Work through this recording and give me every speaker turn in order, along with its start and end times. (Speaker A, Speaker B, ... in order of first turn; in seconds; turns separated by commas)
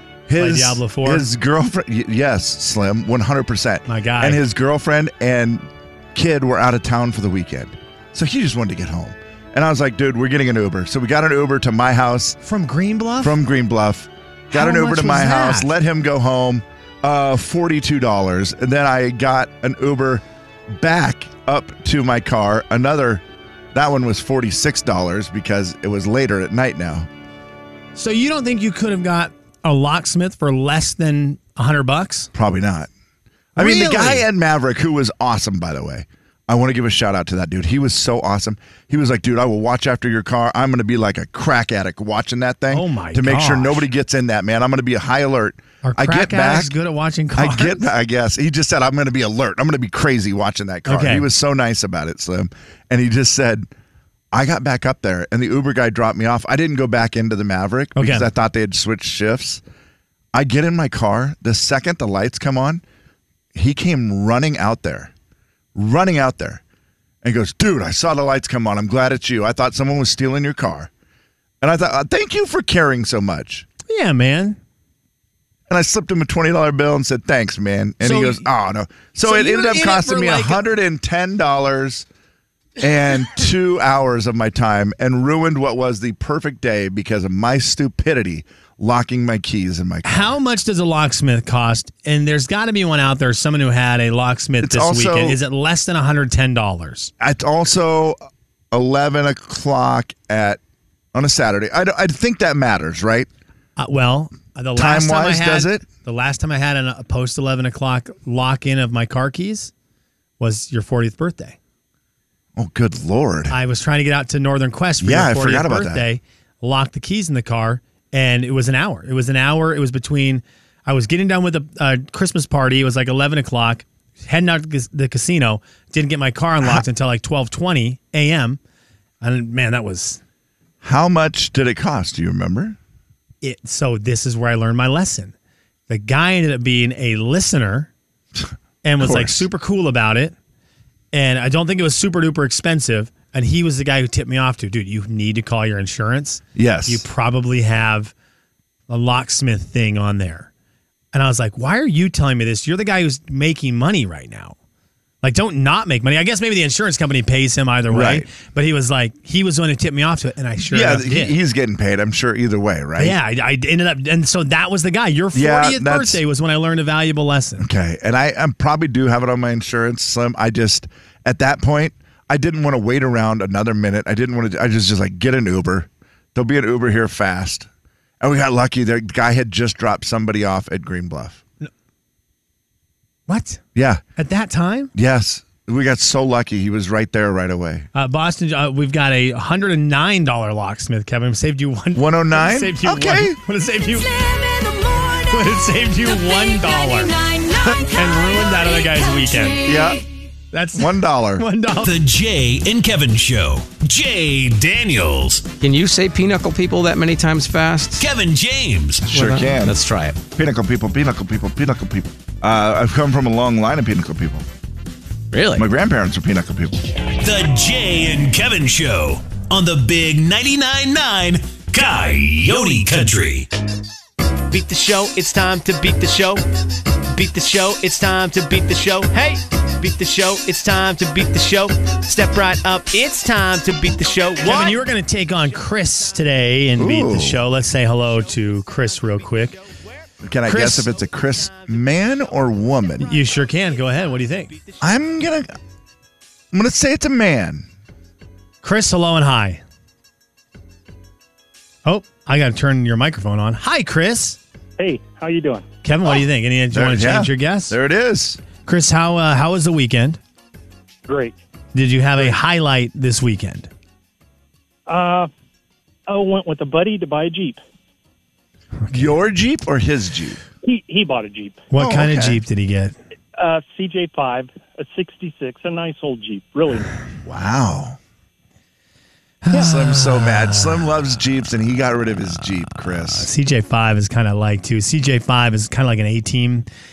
Speaker A: 0.3-12.4, Speaker B: 0.4-1.2, Speaker B: 3.9-4.4, Speaker B: 12.4-13.4, Speaker A: 13.2-27.1, Speaker B: 14.5-15.7, Speaker B: 27.9-32.3, Speaker A: 32.3-32.9, Speaker B: 33.5-34.2, Speaker A: 33.5-46.7, Speaker B: 42.7-43.9, Speaker B: 45.8-47.9, Speaker A: 47.4-53.7, Speaker B: 50.9-51.3, Speaker A: 54.3-59.6, Speaker B: 58.0-58.3, Speaker A: 60.3-62.8, Speaker A: 63.5-65.1, Speaker A: 65.7-66.6, Speaker A: 67.2-70.9, Speaker A: 71.6-73.7, Speaker B: 73.9-74.6, Speaker A: 75.7-82.0, Speaker B: 78.0-78.5, Speaker B: 79.2-80.6, Speaker A: 82.8-90.3, Speaker B: 90.0-97.1, Speaker A: 94.6-95.4, Speaker A: 97.2-98.2, Speaker A: 98.7-100.6, Speaker A: 101.1-103.3, Speaker B: 103.8-109.7, Speaker A: 104.8-105.8, Speaker B: 110.4-111.6, Speaker A: 112.5-113.6, Speaker B: 113.5-128.6, Speaker A: 115.0-116.0, Speaker B: 129.2-130.2, Speaker A: 130.8-132.8, Speaker B: 133.4-135.3, Speaker B: 135.9-137.9, Speaker B: 138.8-140.3, Speaker A: 139.0-139.5, Speaker B: 141.1-148.1, Speaker A: 146.5-147.0, Speaker B: 148.9-150.5, Speaker B: 151.1-154.5, Speaker B: 155.2-161.3, Speaker A: 157.9-158.3, Speaker A: 160.6-163.2, Speaker B: 163.0-167.7, Speaker A: 165.3-166.2, Speaker A: 167.6-177.7, Speaker A: 178.2-181.4, Speaker B: 183.3-183.6, Speaker A: 183.7-184.0, Speaker B: 184.2-184.9, Speaker A: 184.9-187.9, Speaker B: 187.9-194.1, Speaker A: 191.9-193.4, Speaker C: 193.9-200.1, Speaker B: 195.3-197.1, Speaker B: 197.9-199.6, Speaker A: 199.6-200.0, Speaker B: 200.5-201.9, Speaker A: 200.8-201.5, Speaker D: 201.8-205.5, Speaker E: 205.6-208.0, Speaker D: 208.0-209.1, Speaker A: 209.1-214.4, Speaker E: 209.1-210.2, Speaker E: 215.3-215.7, Speaker A: 215.5-216.9, Speaker D: 217.2-223.5, Speaker F: 224.5-226.3, Speaker F: 227.3-229.2, Speaker F: 229.8-231.7, Speaker B: 234.4-239.6, Speaker A: 236.8-237.4, Speaker A: 240.2-243.1, Speaker B: 240.4-240.9, Speaker B: 243.0-244.6, Speaker A: 244.8-245.5, Speaker A: 246.5-247.7, Speaker B: 248.6-249.6, Speaker B: 251.8-254.4, Speaker G: 254.8-255.7, Speaker B: 255.8-257.7, Speaker A: 256.7-258.4, Speaker B: 258.6-260.2, Speaker G: 261.1-261.4, Speaker B: 261.7-263.7, Speaker G: 264.9-265.3, Speaker G: 266.1-267.6, Speaker B: 268.9-269.1, Speaker A: 268.9-270.4, Speaker G: 270.6-271.6, Speaker B: 271.7-272.9, Speaker A: 271.7-272.4, Speaker G: 273.4-277.0, Speaker A: 277.2-278.0, Speaker B: 279.4-280.9, Speaker A: 279.5-283.3, Speaker B: 283.1-286.6